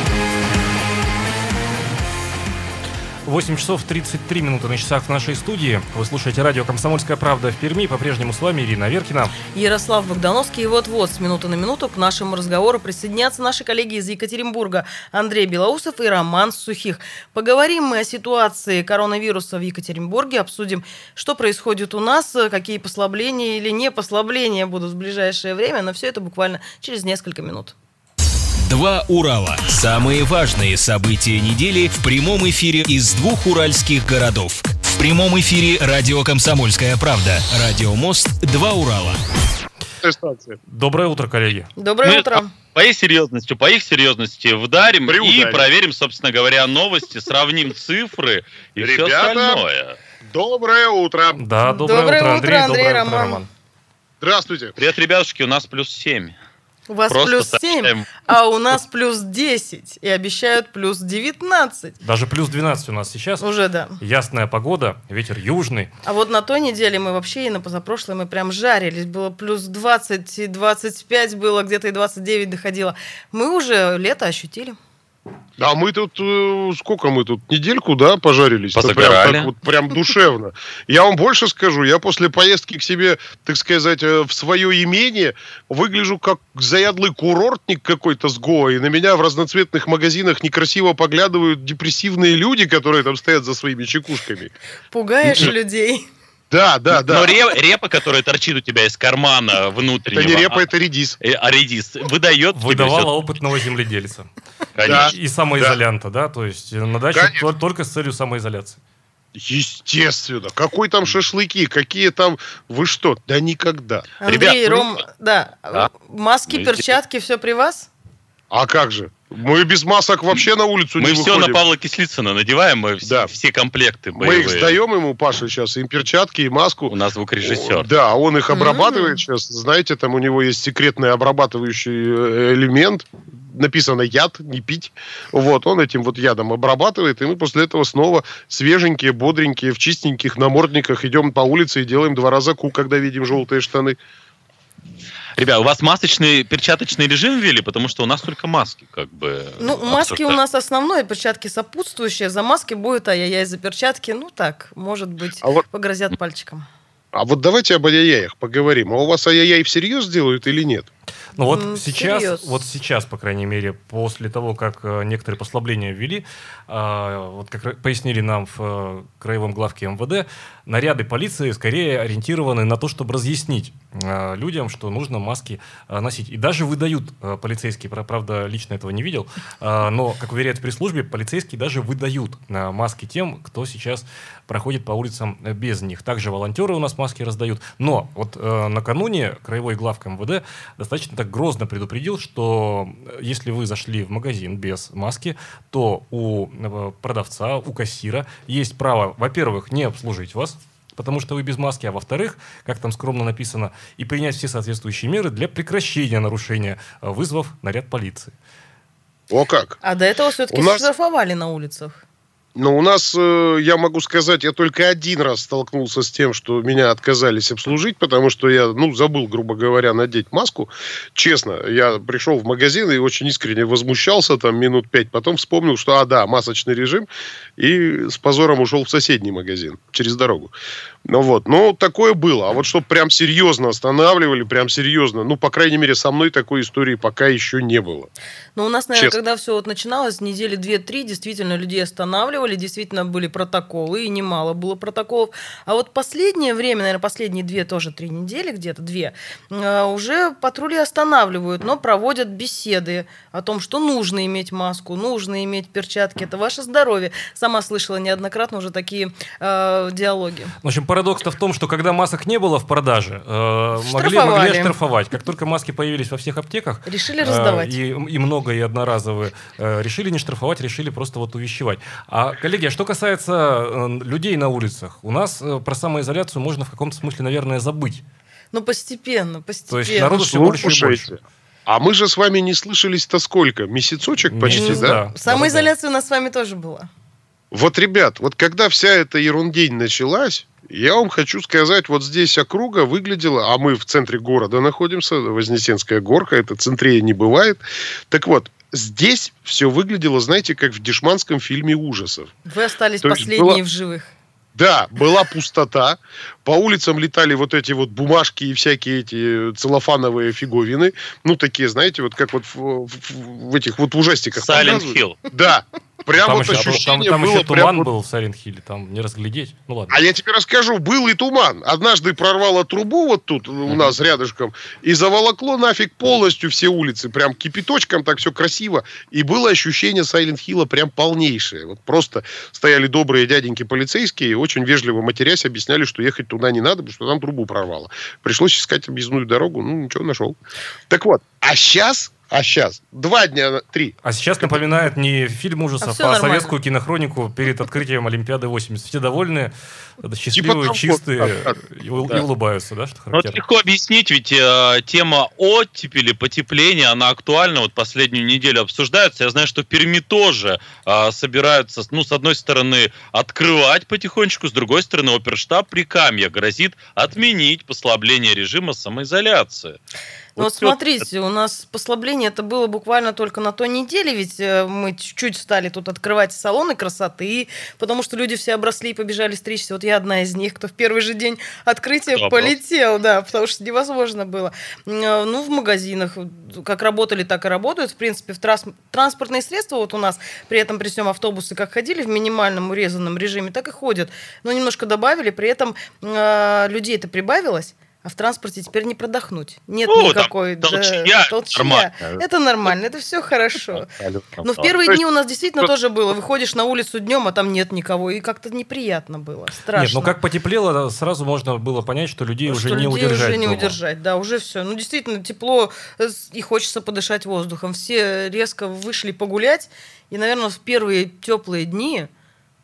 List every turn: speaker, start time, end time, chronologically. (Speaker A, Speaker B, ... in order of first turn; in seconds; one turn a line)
Speaker A: 3.2-9.3
Speaker B: 9.5-27.7
Speaker C: 28.6-39.2
Speaker D: 40.0-40.6
Speaker A: 40.7-41.7
Speaker B: 41.8-42.5
Speaker E: 42.0-50.0
Speaker D: 45.0-45.7
Speaker D: 48.8-49.6
Speaker D: 50.2-51.4
Speaker A: 51.3-53.5
Speaker B: 51.6-53.4
Speaker D: 54.2-54.8
Speaker E: 54.8-56.4
Speaker B: 56.9-62.0
Speaker E: 57.1-58.1
Speaker A: 62.0-63.5
Speaker B: 63.4-64.0
Speaker A: 64.0-65.9
Speaker B: 66.0-74.8
Speaker D: 75.6-94.5
Speaker E: 78.7-79.5
Speaker B: 94.9-96.0
Speaker D: 96.5-97.3
Speaker E: 96.9-100.6
Speaker D: 100.1-101.2
Speaker E: 101.2-103.1
Speaker A: 102.5-104.3
Speaker E: 104.8-105.1
Speaker D: 104.8-105.8
Speaker A: 104.9-108.8
Speaker D: 107.1-107.4
Speaker D: 109.3-114.1
Speaker B: 114.2-117.9
Speaker E: 114.3-114.8
Speaker E: 116.5-116.9
Speaker D: 118.5-121.6
Speaker E: 121.0-124.8
Speaker D: 123.0-123.3
Speaker D: 124.1-144.0
Speaker E: 126.9-127.9
Speaker B: 128.5-129.2
Speaker E: 145.3-150.4
Speaker B: 149.6-156.7
Speaker D: 157.1-160.9
Speaker A: 161.3-208.3
Speaker B: 161.4-162.6
Speaker D: 209.3-209.8
Speaker B: 209.8-212.0
Speaker D: 210.5-210.8
Speaker D: 212.5-230.5
Speaker D: 231.0-238.1
Speaker B: 238.6-260.5
Speaker A: 260.6-278.0
Speaker B: 263.8-264.7
Speaker B: 266.9-267.8
Speaker B: 278.5-280.5
Speaker A: 279.7-281.1
Speaker D: 280.1-285.0
Speaker A: 284.3-285.7
Speaker B: 284.5-286.9
Speaker D: 287.5-302.3
Speaker B: 302.5-304.1
Speaker D: 303.0-303.6
Speaker D: 304.5-317.9
Speaker E: 314.4-315.2
Speaker A: 316.1-320.0
Speaker D: 319.9-340.4
Speaker D: 340.9-344.5
Speaker A: 344.0-353.4
Speaker B: 345.8-346.5
Speaker D: 350.3-351.5
Speaker E: 353.1-369.8
Speaker E: 370.4-370.8
Speaker B: 370.4-403.9
Speaker E: 382.1-382.5
Speaker E: 399.9-402.2
Speaker E: 403.7-404.7
Speaker B: 404.4-410.1
Speaker A: 409.7-413.8
Speaker B: 412.5-422.1